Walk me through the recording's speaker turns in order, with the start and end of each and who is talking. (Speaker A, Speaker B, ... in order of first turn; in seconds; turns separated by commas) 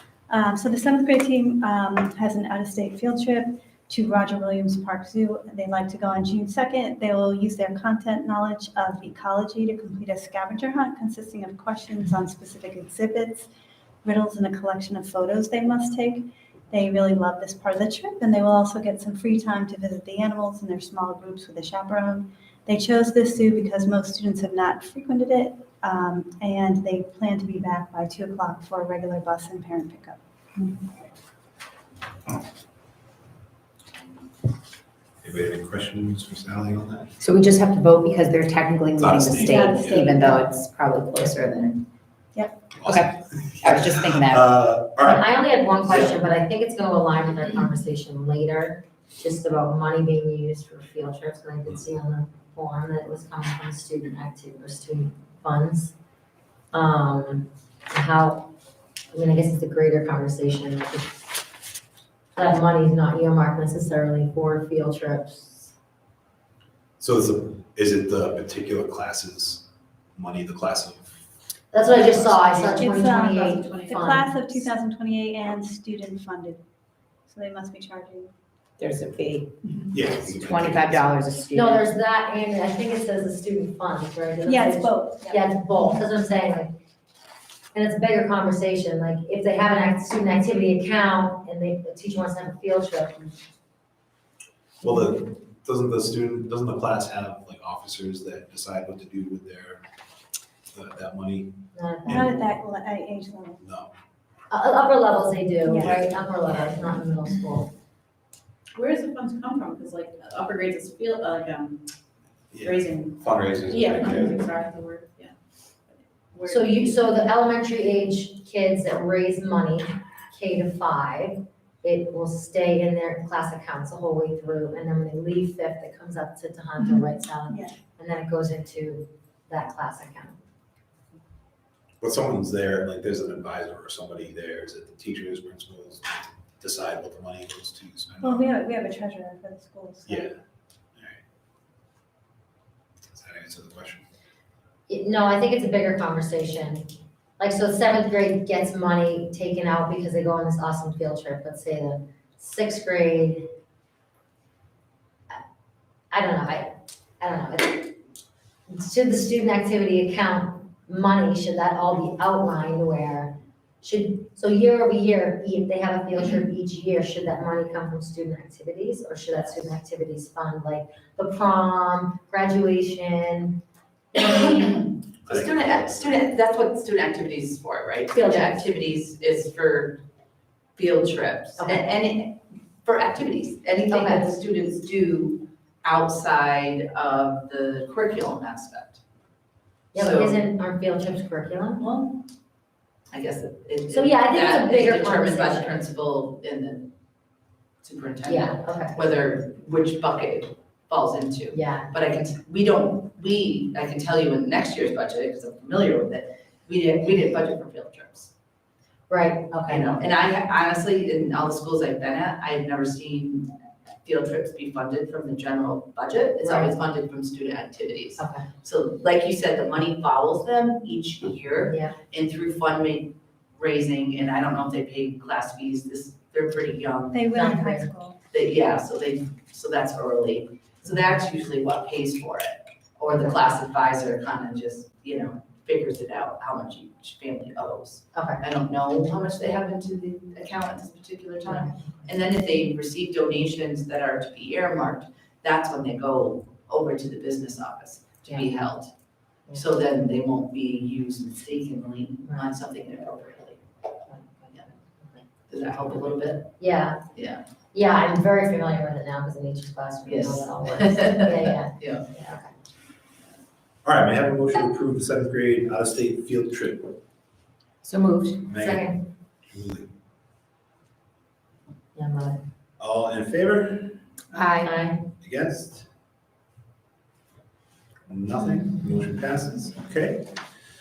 Speaker A: 0.3-13.5, Speaker A: 14.0-30.8, Speaker B: 35.2-37.1, Speaker C: 37.2-41.8, Speaker B: 39.0-40.2, Speaker A: 39.3-40.5, Speaker A: 42.3-42.6, Speaker B: 42.8-45.2, Speaker C: 42.8-44.5, Speaker D: 45.0-56.0, Speaker B: 45.9-46.1, Speaker D: 56.7-58.5, Speaker D: 59.1-61.1, Speaker D: 62.4-65.7, Speaker B: 67.0-69.7, Speaker B: 70.2-71.0, Speaker D: 71.7-74.7, Speaker B: 71.8-72.4, Speaker A: 72.3-76.6, Speaker A: 77.3-78.3, Speaker C: 78.8-81.9, Speaker B: 79.9-81.2, Speaker D: 81.5-86.8, Speaker A: 84.5-85.5, Speaker D: 87.7-93.3, Speaker B: 94.8-99.8, Speaker B: 100.7-101.5, Speaker D: 101.7-102.3, Speaker B: 102.1-102.3, Speaker A: 102.1-103.6, Speaker B: 103.6-103.9, Speaker D: 104.5-107.7, Speaker A: 105.6-106.0, Speaker B: 105.8-106.6, Speaker E: 108.8-111.8, Speaker B: 112.5-114.4, Speaker E: 112.6-115.3, Speaker E: 116.3-117.0, Speaker D: 116.5-130.4, Speaker A: 126.8-127.8, Speaker B: 132.0-138.5, Speaker A: 138.2-140.3, Speaker B: 140.1-140.3, Speaker B: 143.1-144.1, Speaker D: 144.9-153.5, Speaker D: 156.1-157.9, Speaker D: 158.7-173.6, Speaker D: 174.1-174.8, Speaker F: 174.3-180.0, Speaker B: 175.3-176.1, Speaker D: 178.1-178.6, Speaker F: 180.8-189.0, Speaker D: 181.6-181.8, Speaker D: 183.9-184.3, Speaker D: 189.9-191.9, Speaker F: 189.9-190.4, Speaker F: 191.8-192.2, Speaker F: 193.1-196.9, Speaker D: 193.9-195.8, Speaker F: 197.8-208.3, Speaker D: 198.2-199.1, Speaker D: 201.5-201.9, Speaker D: 209.1-210.0, Speaker F: 209.7-213.5, Speaker F: 214.0-227.2, Speaker D: 216.4-216.7, Speaker D: 218.2-218.5, Speaker D: 221.7-222.0, Speaker A: 227.1-228.2, Speaker D: 227.3-227.9, Speaker F: 228.3-248.9, Speaker D: 233.1-233.4, Speaker D: 238.1-238.4, Speaker D: 241.4-241.8, Speaker F: 249.5-253.6, Speaker D: 254.1-255.2, Speaker F: 255.5-256.5, Speaker D: 256.6-257.0, Speaker F: 257.1-257.4, Speaker D: 257.7-262.5, Speaker F: 260.1-262.0, Speaker B: 263.8-267.0, Speaker C: 267.8-268.5, Speaker B: 268.5-268.9, Speaker D: 268.6-269.1, Speaker B: 269.5-269.9, Speaker D: 271.9-272.4, Speaker B: 272.8-274.0, Speaker C: 274.3-274.8, Speaker D: 274.6-275.1, Speaker B: 275.2-275.9, Speaker B: 278.1-280.4